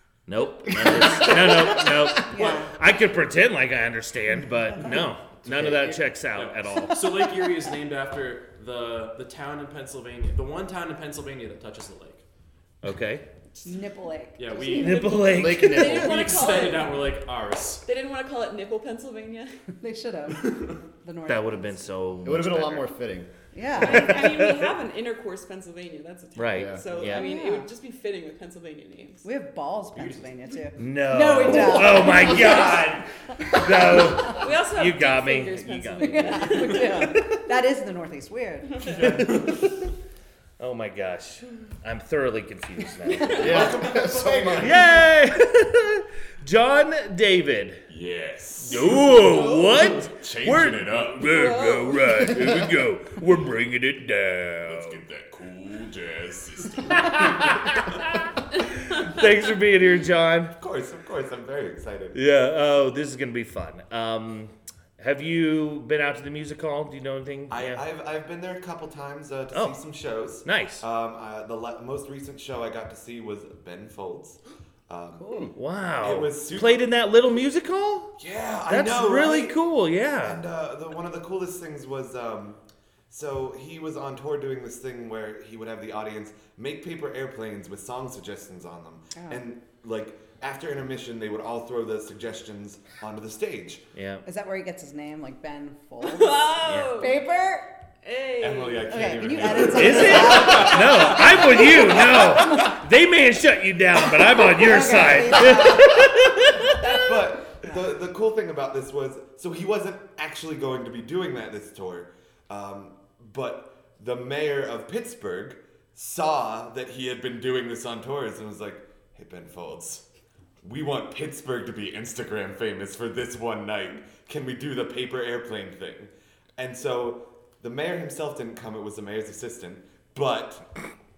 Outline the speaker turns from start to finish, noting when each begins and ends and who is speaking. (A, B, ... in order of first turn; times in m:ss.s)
0:00.3-0:07.0 A
0:00.7-0:02.2 B
0:02.3-0:02.8 C
0:05.4-0:06.0 B
0:06.3-0:12.2 D
0:12.8-0:13.2 A
0:13.6-0:15.5 C
0:14.4-0:17.8 D
0:14.8-0:16.0 A
0:15.3-0:16.5 B
0:15.5-0:17.0 E
0:17.8-0:19.5 E
0:19.8-0:21.9 C
0:21.2-0:22.9 A
0:22.2-0:23.3 B
0:23.5-0:24.4 C
0:23.8-0:24.7 A
0:23.8-0:29.2 E
0:26.4-0:27.3 A
0:26.5-0:26.8 B
0:27.0-0:27.7 C
0:29.2-0:32.9 C
0:29.9-0:30.3 D
0:30.8-0:37.4 A
0:33.5-0:34.3 C
0:34.3-0:37.1 E
0:36.0-0:39.3 C
0:38.8-0:39.6 D
0:39.0-0:39.6 A
0:40.6-0:43.7 A
0:43.3-0:44.8 F
0:43.3-0:44.9 B
0:44.6-0:47.8 A
0:47.9-0:51.4 F
0:48.6-0:55.0 A
0:49.1-0:50.1 D
0:51.3-0:52.0 E
0:54.6-0:57.2 F
0:56.8-1:00.5 A
1:00.6-1:02.2 F
1:02.1-1:07.8 A
1:07.5-1:15.4 F
1:09.5-1:09.8 A
1:10.4-1:10.8 A
1:15.2-1:15.5 C
1:15.5-1:18.1 A
1:16.0-1:16.8 F
1:18.2-1:19.6 F
1:18.7-1:20.4 A
1:20.2-1:22.6 F
1:23.1-1:33.8 F
1:29.1-1:29.4 C
1:33.9-1:34.2 A
1:34.2-1:37.7 C
1:36.0-1:37.1 E
1:36.6-1:36.9 A
1:38.0-1:38.9 E
1:38.4-1:41.0 F
1:38.9-1:42.8 C
1:39.6-1:47.1 A
1:44.4-1:46.1 C
1:46.8-2:00.0 F
2:00.6-2:10.9 F